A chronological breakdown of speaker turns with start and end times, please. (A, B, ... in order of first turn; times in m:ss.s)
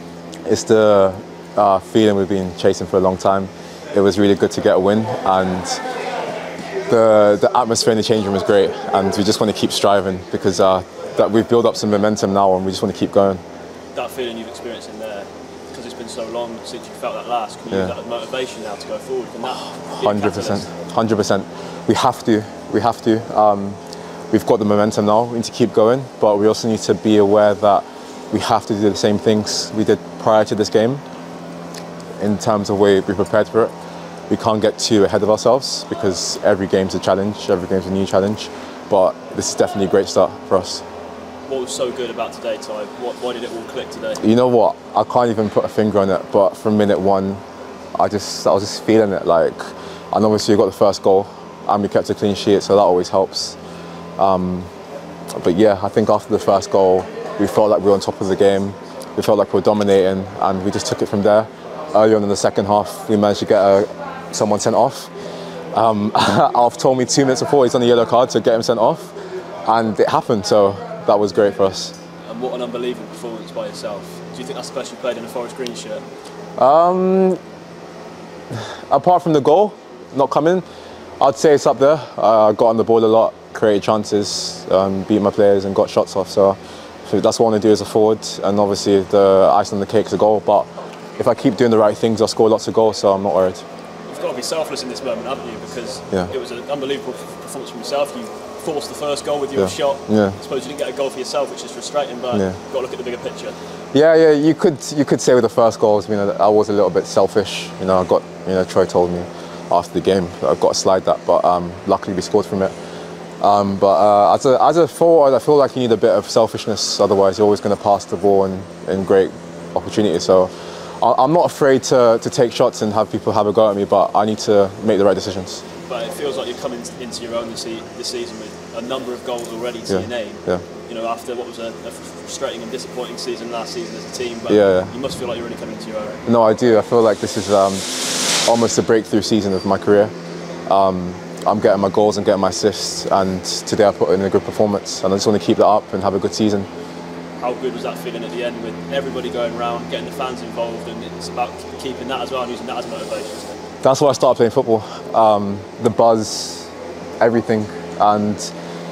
0:00.5-0:05.8 A
0:06.9-0:13.4 A
0:14.0-0:20.7 B
0:19.9-0:23.8 A
0:24.3-0:31.0 A
0:32.2-0:33.7 A
0:34.3-0:40.8 A
0:41.5-0:44.2 B
0:44.2-0:47.4 A
0:48.0-0:49.6 A
0:50.1-0:53.6 A
0:54.2-0:54.7 A
0:55.4-1:05.1 A
1:05.7-1:09.1 A
1:09.7-1:12.0 A
1:12.3-1:16.0 B
1:16.6-1:17.4 A
1:18.5-1:20.6 A
1:21.2-1:33.6 A
1:34.1-1:43.6 B
1:39.6-1:40.4 A
1:43.9-1:52.7 A
1:53.4-2:05.6 A
2:05.9-2:16.2 B
2:09.9-2:10.6 A
2:14.5-2:14.9 A
2:16.3-2:17.9 A
2:18.5-2:20.1 A
2:20.7-2:26.7 A
2:27.4-2:33.6 B
2:33.8-2:38.5 A